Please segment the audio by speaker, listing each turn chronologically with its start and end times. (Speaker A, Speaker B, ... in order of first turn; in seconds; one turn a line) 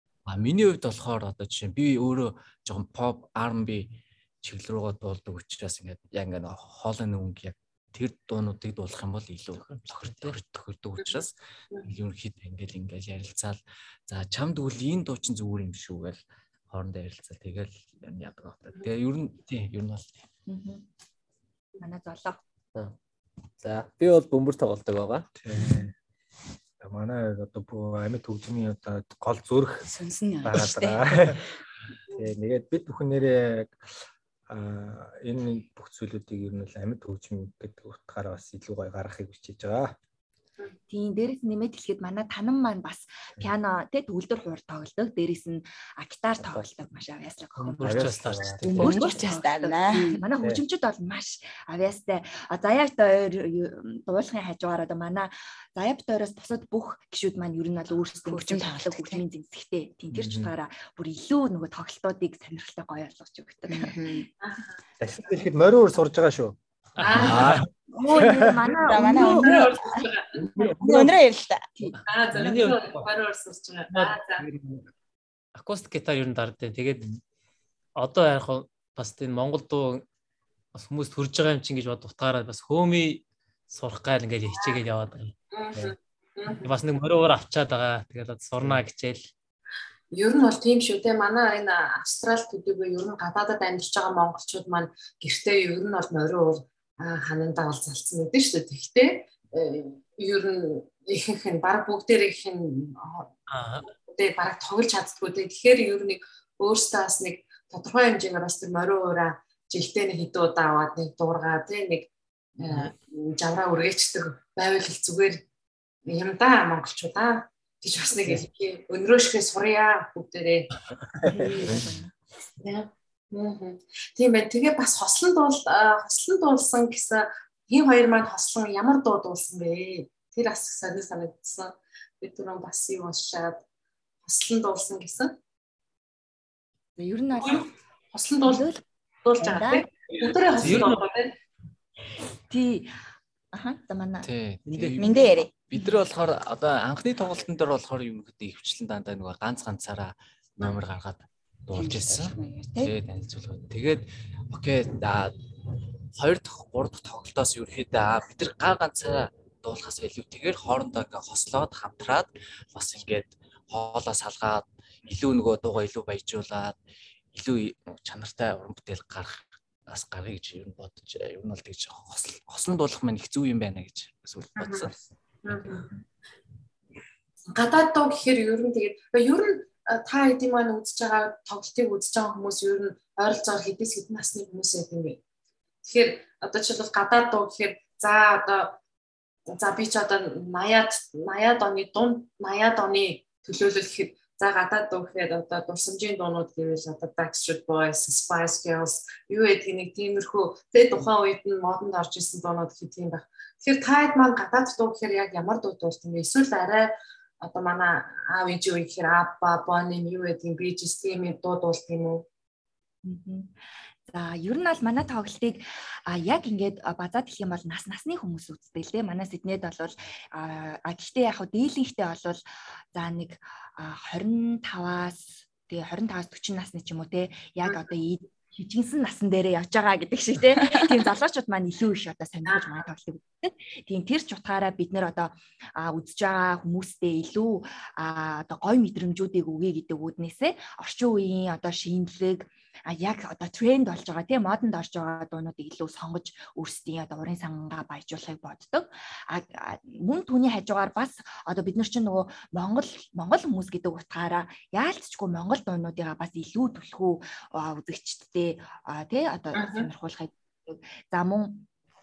Speaker A: 0.2-20.1
Speaker B: 9.6-10.4
Speaker C: 20.5-20.8
Speaker C: 21.8-22.4
Speaker D: 23.6-25.3
Speaker E: 25.4-25.9
Speaker E: 26.8-29.9
Speaker F: 29.8-31.3
Speaker E: 30.4-31.4
Speaker E: 32.1-33.8
Speaker E: 34.5-40.0
Speaker C: 40.9-64.2
Speaker B: 47.6-49.0
Speaker E: 47.8-48.6
Speaker F: 48.7-50.2
Speaker F: 58.2-59.2
Speaker E: 60.1-60.5
Speaker F: 63.7-64.3
Speaker G: 64.4-64.8
Speaker E: 65.0-66.6
Speaker B: 67.0-67.7
Speaker G: 67.0-67.6
Speaker E: 67.2-67.6
Speaker C: 67.9-70.1
Speaker E: 68.1-68.6
Speaker F: 68.8-70.0
Speaker G: 69.0-70.5
Speaker F: 70.5-71.7
Speaker B: 70.8-71.1
Speaker G: 72.0-74.4
Speaker B: 72.3-73.0
Speaker B: 73.9-74.5
Speaker B: 75.5-77.2
Speaker B: 78.0-80.0
Speaker B: 80.7-85.3
Speaker G: 85.5-86.7
Speaker B: 86.6-89.2
Speaker G: 90.1-103.3
Speaker B: 103.5-103.9
Speaker G: 103.9-115.4
Speaker G: 116.0-120.7
Speaker C: 121.2-122.1
Speaker D: 121.4-121.7
Speaker G: 122.6-133.6
Speaker G: 134.2-135.3
Speaker C: 137.0-137.7
Speaker G: 137.3-138.7
Speaker C: 138.4-138.8
Speaker G: 139.2-141.3
Speaker C: 139.4-139.9
Speaker B: 140.6-141.0
Speaker C: 142.5-142.9
Speaker C: 143.5-144.3
Speaker A: 144.2-155.3
Speaker B: 144.7-145.1
Speaker F: 145.0-145.5
Speaker F: 151.7-152.9
Speaker A: 156.1-166.7
Speaker A: 167.3-174.9
Speaker G: 174.6-174.9
Speaker E: 174.9-175.8
Speaker G: 175.4-175.9
Speaker G: 177.5-185.2
Speaker G: 185.8-188.8
Speaker G: 189.5-212.2
Speaker C: 213.0-213.5
Speaker C: 214.1-222.4
Speaker C: 222.9-261.6
Speaker G: 227.6-227.9
Speaker G: 232.5-232.8
Speaker G: 259.6-259.9